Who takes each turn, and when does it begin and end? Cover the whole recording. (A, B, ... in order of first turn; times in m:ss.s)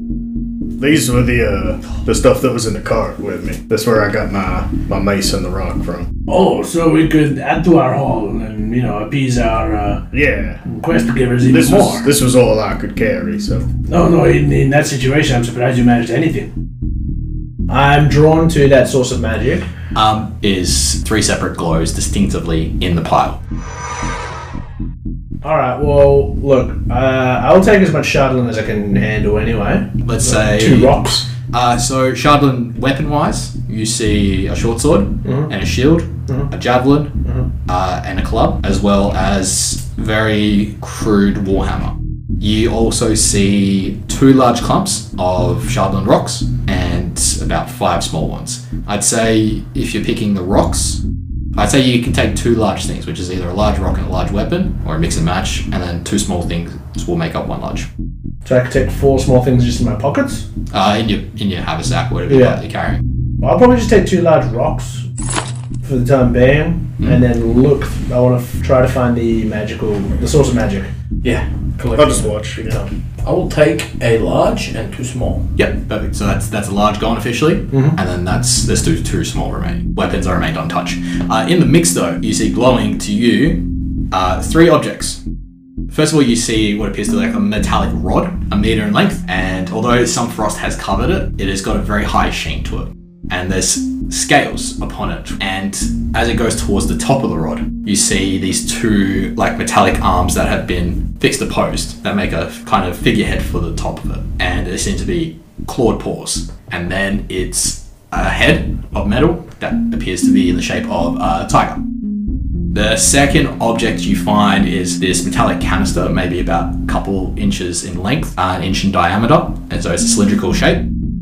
0:00.8-0:06.1 A
0:06.3-0:10.0 B
0:10.1-0:10.6 A
0:10.6-0:12.1 B
0:11.5-0:13.7 A
0:13.8-0:16.5 B
0:17.7-0:19.7 B
0:19.9-0:23.4 C
0:25.4-0:31.3 B
0:30.0-0:51.0 C
0:35.2-0:35.5 B
0:51.6-0:57.9 C
0:58.4-1:00.4 B
1:00.7-1:03.0 C
1:02.3-1:02.6 B
1:03.4-1:05.1 B
1:05.8-1:10.9 B
1:11.2-1:15.5 D
1:12.0-1:12.8 A
1:15.6-1:25.2 C
1:17.7-1:18.0 B
1:25.9-1:51.8 C
1:52.7-2:00.9 C